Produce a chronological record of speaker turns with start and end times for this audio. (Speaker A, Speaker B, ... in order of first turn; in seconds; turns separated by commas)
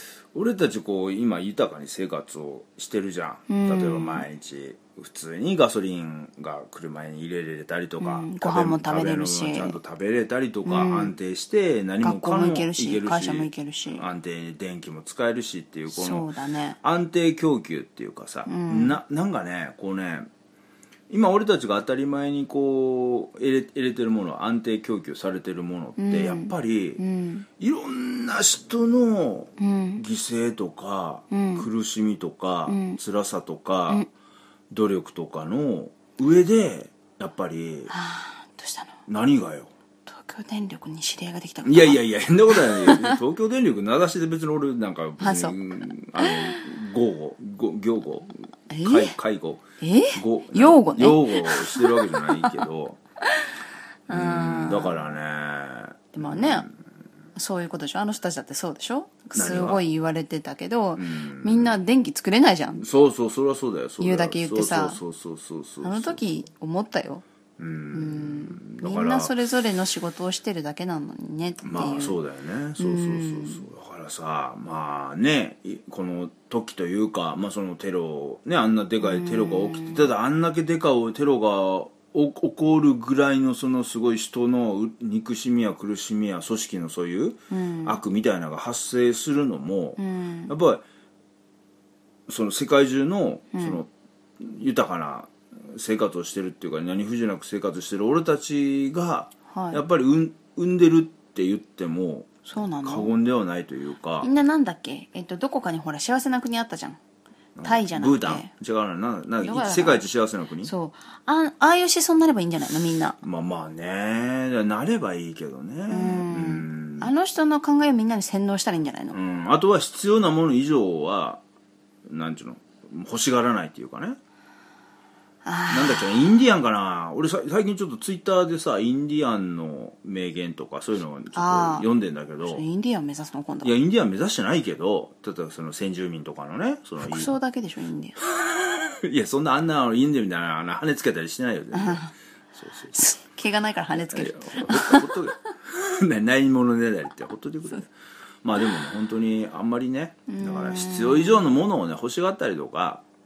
Speaker A: 0.3-16.3, Speaker B: 3.5-4.2, Speaker B: 8.0-9.8, Speaker B: 10.7-11.1, Speaker B: 12.0-14.1, Speaker B: 15.9-16.8, Speaker A: 16.8-20.3, Speaker B: 18.5-19.0, Speaker A: 21.1-27.0, Speaker B: 26.0-27.5, Speaker A: 27.6-34.0, Speaker B: 29.6-30.0, Speaker B: 31.3-31.7, Speaker B: 32.7-33.0, Speaker A: 34.7-37.9, Speaker B: 37.9-38.9, Speaker A: 39.1-39.7, Speaker B: 40.1-43.2, Speaker A: 41.6-49.6, Speaker B: 45.2-45.6, Speaker B: 46.2-46.6, Speaker B: 48.7-49.1, Speaker B: 49.8-52.5, Speaker A: 50.1-53.0, Speaker B: 54.1-55.0, Speaker A: 54.1-56.7, Speaker B: 56.1-56.7, Speaker B: 57.4-62.8, Speaker A: 59.3-59.8, Speaker A: 61.0-61.8, Speaker A: 62.8-66.3, Speaker B: 64.0-65.0, Speaker B: 65.8-67.2, Speaker A: 67.6-69.3, Speaker B: 67.9-72.2, Speaker A: 71.6-90.8, Speaker B: 72.8-73.7, Speaker B: 79.0-80.1, Speaker B: 87.5-88.0, Speaker B: 90.0-90.5, Speaker A: 92.3-102.3, Speaker B: 93.5-93.8, Speaker B: 99.5-99.8, Speaker B: 102.4-103.1, Speaker A: 102.8-104.3, Speaker B: 104.2-107.0, Speaker A: 107.6-110.7, Speaker B: 107.6-108.5, Speaker B: 109.4-110.0, Speaker B: 110.6-113.2, Speaker A: 113.2-117.1, Speaker B: 115.9-119.2, Speaker A: 119.1-121.4, Speaker A: 122.1-124.2, Speaker B: 125.4-126.4, Speaker A: 125.7-132.6, Speaker B: 131.3-131.9, Speaker B: 132.4-133.7, Speaker A: 133.6-137.3, Speaker B: 137.0-138.2, Speaker A: 138.2-143.0, Speaker B: 141.7-142.1, Speaker B: 142.9-145.2, Speaker A: 144.1-147.9, Speaker A: 148.4-153.0, Speaker B: 150.3-151.4